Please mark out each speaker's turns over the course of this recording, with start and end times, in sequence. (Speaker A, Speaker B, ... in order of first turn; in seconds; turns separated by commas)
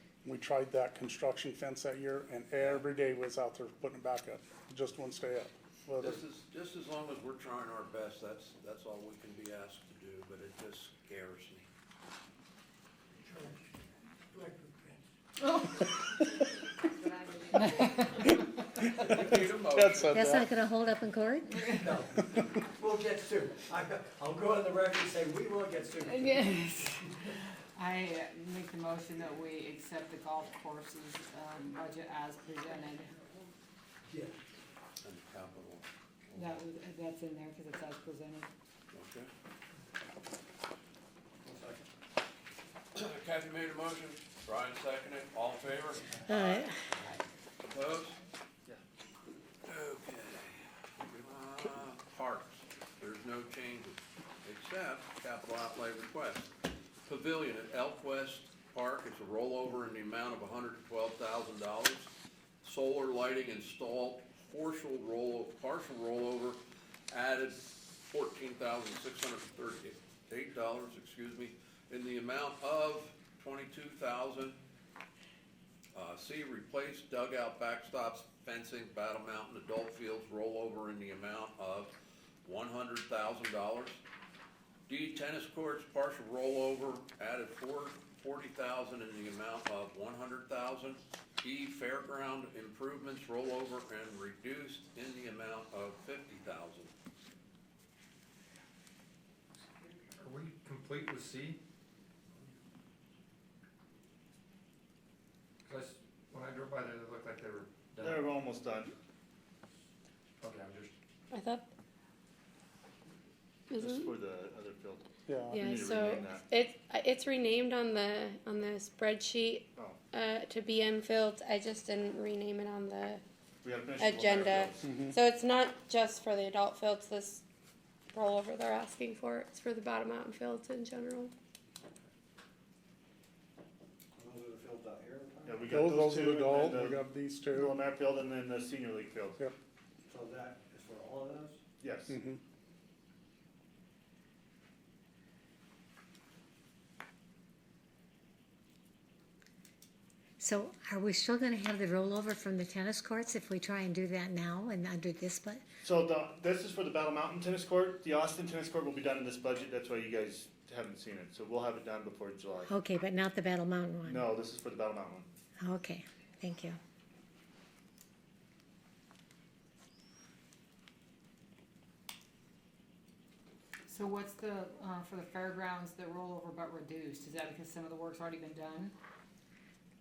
Speaker A: 0.2-6.2, Speaker B: 2.6-2.8, Speaker B: 6.0-11.7, Speaker C: 13.2-13.6, Speaker C: 14.3-15.0, Speaker D: 15.4-15.8, Speaker D: 17.5-18.4, Speaker B: 18.9-20.4, Speaker C: 19.2-19.5, Speaker A: 19.7-20.5, Speaker E: 20.1-21.7, Speaker D: 21.5-21.9, Speaker C: 21.7-27.0, Speaker D: 26.1-27.1, Speaker D: 27.7-33.2, Speaker C: 34.0-34.4, Speaker B: 35.0-36.6, Speaker D: 36.4-38.5, Speaker B: 38.9-39.3, Speaker C: 41.4-41.9, Speaker B: 43.0-46.7, Speaker E: 46.3-46.9, Speaker B: 47.6-48.2, Speaker B: 49.7-56.5, Speaker B: 57.1-62.1, Speaker B: 62.6-66.6, Speaker B: 67.1-74.6, Speaker B: 75.9-84.0, Speaker B: 84.9-96.9, Speaker F: 100.1-101.6, Speaker F: 105.6-108.3, Speaker G: 108.0-108.9, Speaker F: 110.4-110.9, Speaker H: 111.3-111.7, Speaker H: 113.7-114.1, Speaker G: 113.8-116.4, Speaker A: 115.3-115.6, Speaker H: 115.5-123.2, Speaker G: 123.6-124.9, Speaker H: 124.0-127.4, Speaker A: 124.8-125.2, Speaker H: 128.1-131.3, Speaker C: 134.2-135.8, Speaker G: 135.5-139.4, Speaker A: 135.7-137.8, Speaker C: 140.1-141.6, Speaker G: 141.8-142.2, Speaker A: 142.1-142.4, Speaker E: 150.4-155.6, Speaker G: 155.8-162.8, Speaker E: 162.7-164.3, Speaker G: 164.1-165.3, Speaker E: 165.6-166.8, Speaker D: 173.9-178.9